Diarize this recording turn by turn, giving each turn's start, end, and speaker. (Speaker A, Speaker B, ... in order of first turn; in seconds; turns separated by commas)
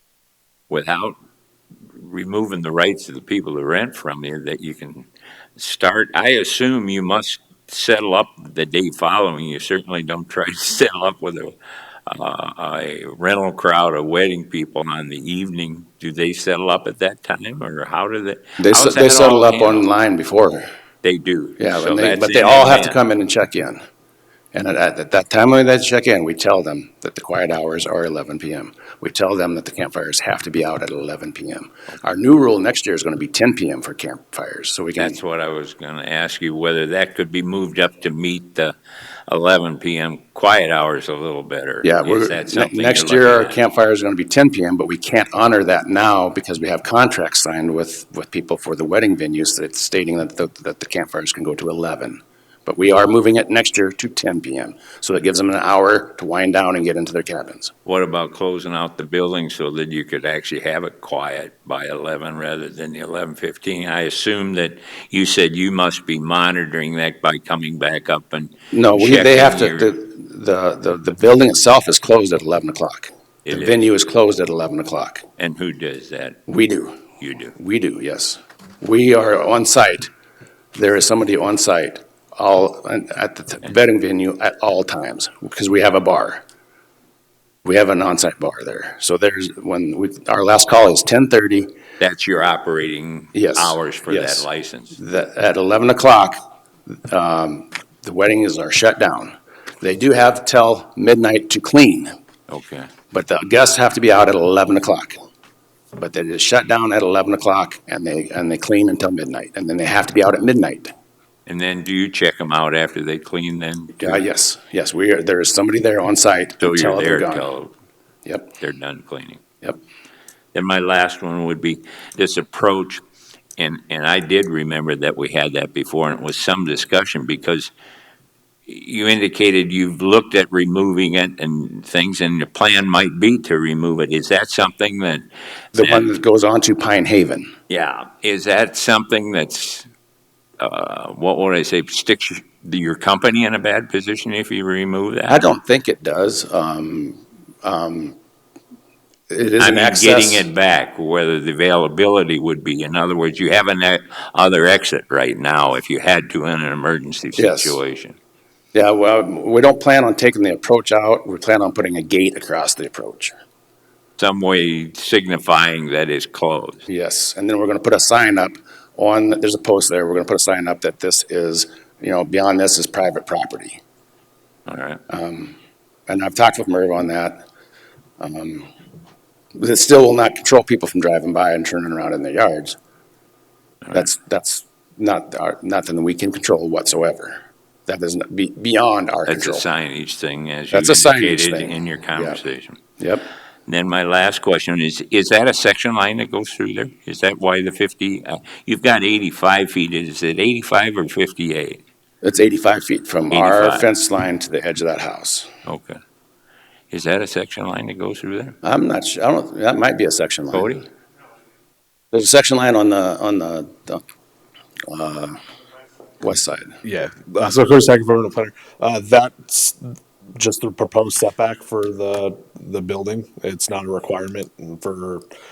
Speaker A: 0.7-1.1, Speaker A: 1.9-19.9, Speaker B: 18.6-20.6, Speaker A: 21.0-23.0, Speaker B: 21.6-23.8, Speaker B: 24.5-35.2, Speaker A: 35.0-38.7, Speaker A: 39.3-43.6, Speaker B: 41.8-57.7, Speaker A: 57.9-69.9, Speaker B: 68.7-75.2, Speaker A: 73.5-73.8, Speaker A: 75.4-76.4, Speaker B: 76.5-77.0, Speaker A: 77.2-77.5, Speaker B: 77.5-80.1, Speaker B: 80.8-86.4, Speaker B: 87.6-91.7, Speaker A: 92.0-95.0, Speaker B: 93.3-96.4, Speaker B: 96.9-102.1, Speaker A: 102.5-102.9, Speaker B: 103.1-105.2, Speaker B: 106.0-110.9, Speaker A: 111.5-114.2, Speaker B: 114.0-117.5, Speaker A: 116.6-117.7, Speaker B: 118.3-118.5, Speaker A: 118.6-119.4, Speaker A: 120.5-123.0, Speaker A: 123.6-127.7, Speaker A: 128.7-135.3, Speaker B: 135.8-137.5, Speaker A: 135.8-136.2, Speaker A: 137.7-139.9, Speaker A: 140.6-145.4, Speaker B: 145.3-148.2, Speaker B: 149.3-150.5, Speaker A: 149.6-158.2, Speaker B: 157.4-157.8, Speaker B: 158.7-163.3, Speaker A: 164.2-166.8, Speaker B: 166.9-173.8, Speaker A: 174.7-175.0, Speaker B: 175.1-175.6, Speaker B: 176.1-177.5, Speaker B: 178.2-178.7, Speaker B: 179.6-182.8, Speaker B: 183.9-189.7, Speaker A: 189.3-192.8, Speaker B: 190.7-192.4, Speaker B: 193.0-193.3, Speaker A: 193.7-201.8, Speaker B: 202.2-205.5, Speaker A: 203.3-203.9, Speaker A: 205.7-206.0, Speaker A: 206.9-208.6, Speaker B: 208.6-210.7, Speaker A: 210.5-210.8, Speaker B: 212.1-214.0, Speaker B: 214.9-215.4, Speaker B: 216.2-216.8, Speaker C: 216.8-225.2